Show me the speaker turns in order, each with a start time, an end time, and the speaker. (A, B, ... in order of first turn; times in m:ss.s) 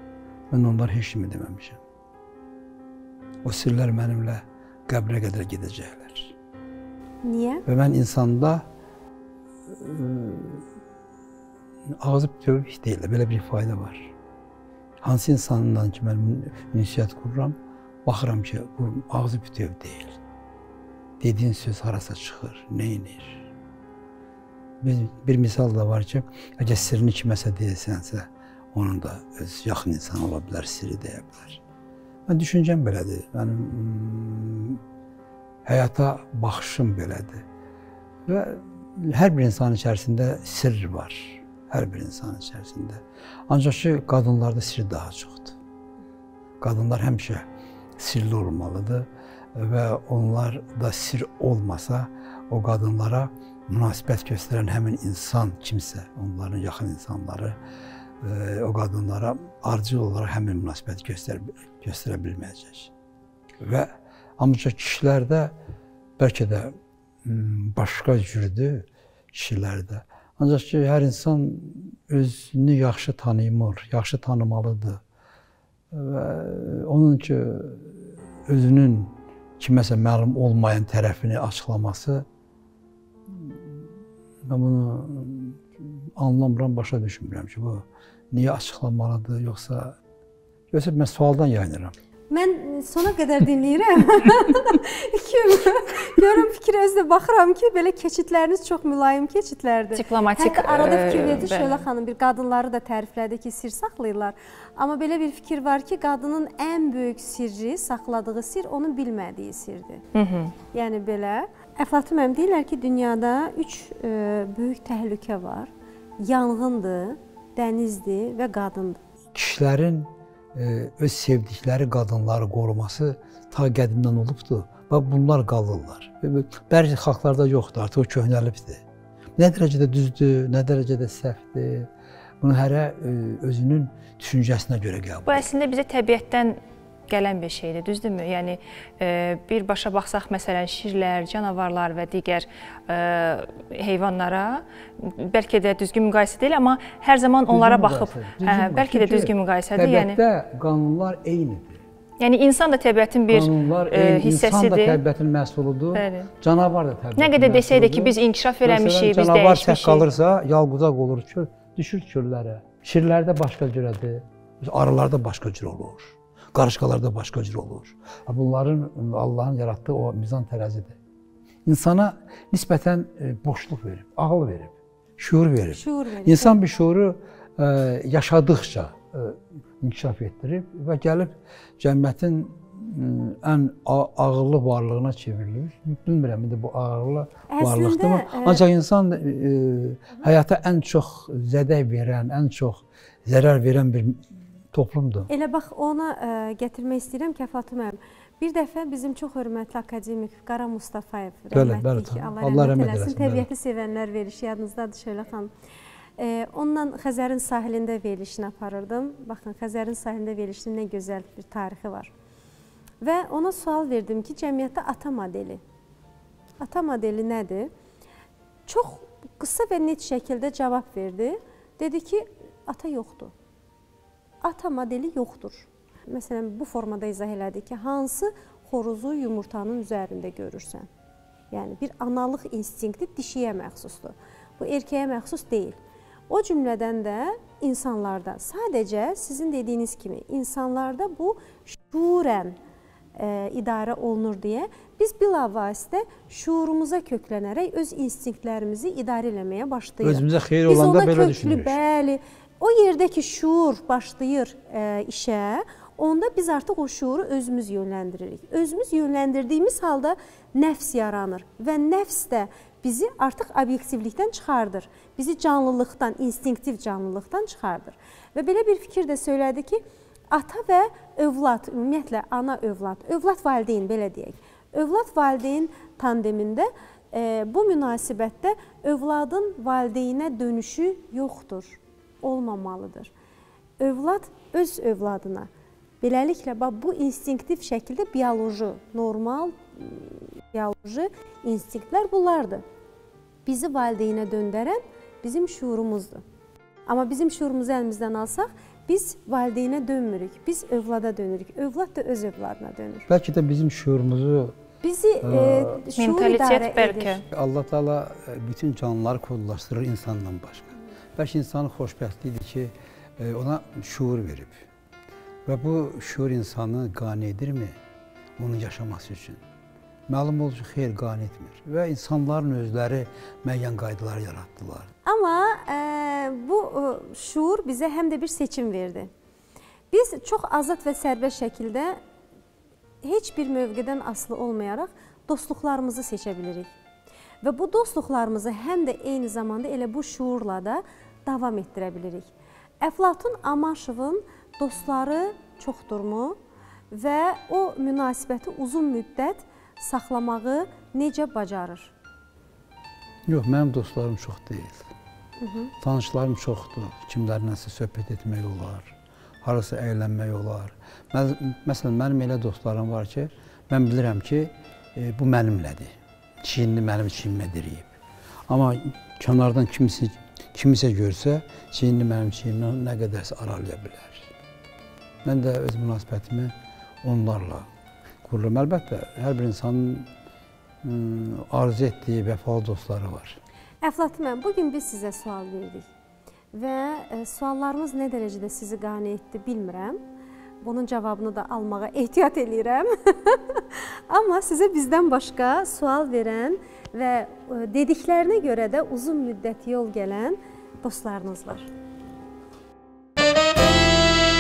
0:00.5-0:01.8 A
0:03.4-0:06.4 A
0:07.2-0:07.6 B
0:07.6-0:08.6 A
0:09.7-0:10.6 A
0:11.9-0:14.1 A
0:15.0-0:20.2 A
0:21.2-0:23.5 A
0:24.8-0:31.6 A
0:32.3-0:34.8 A
0:35.6-0:37.4 A
0:38.3-0:45.6 A
0:46.6-0:47.4 A
0:48.0-0:57.6 A
0:58.2-1:02.9 A
1:03.6-1:05.5 A
1:06.2-1:15.0 A
1:15.9-1:22.2 A
1:23.3-1:23.9 A
1:24.4-1:30.0 A
1:30.7-1:31.9 A
1:32.3-1:50.0 B
1:39.9-1:41.9 C
1:50.1-1:50.5 C
1:50.7-1:55.7 B
1:56.2-1:59.0 B
1:59.3-2:08.8 A
2:09.4-2:11.9 A
2:12.4-2:15.5 A
2:15.2-2:30.2 C
2:27.5-2:31.8 A
2:32.2-2:35.0 C
2:33.3-2:51.0 A
2:35.9-2:36.3 C
2:37.2-2:40.0 C
2:51.6-3:15.3 A
2:55.7-2:56.6 B
3:07.5-3:08.6 B
3:15.3-3:25.5 B
3:21.5-3:23.5 A
3:26.2-3:32.1 B
3:33.0-3:35.6 B
3:36.6-3:37.7 B
3:38.7-3:43.3 B
3:44.4-3:50.9 B
3:51.5-3:55.8 B
3:56.3-4:02.6 B
4:03.2-4:43.1 B
4:10.0-4:11.8 A
4:43.8-4:45.5 B
4:46.0-4:52.6 B
4:53.4-4:56.2 B
4:56.9-5:03.1 B
5:03.1-5:04.6 A
5:04.8-5:07.2 B
5:05.2-5:05.8 A
5:06.0-5:07.2 C
5:07.3-5:14.6 A
5:15.4-5:17.8 A
5:18.4-5:19.4 A
5:20.1-5:24.9 A
5:25.0-5:29.1 B
5:29.9-5:32.0 B
5:33.0-5:36.7 B
5:37.4-5:42.3 B
5:42.8-5:46.4 B
5:46.9-5:51.9 B
5:53.3-5:54.9 A
5:55.4-5:55.7 B
5:55.8-6:07.9 A
6:08.5-6:14.3 A
6:15.2-6:17.7 A
6:18.2-6:20.1 A
6:20.8-6:23.4 A
6:23.8-6:25.9 B
6:26.5-6:30.0 B
6:30.6-6:41.7 B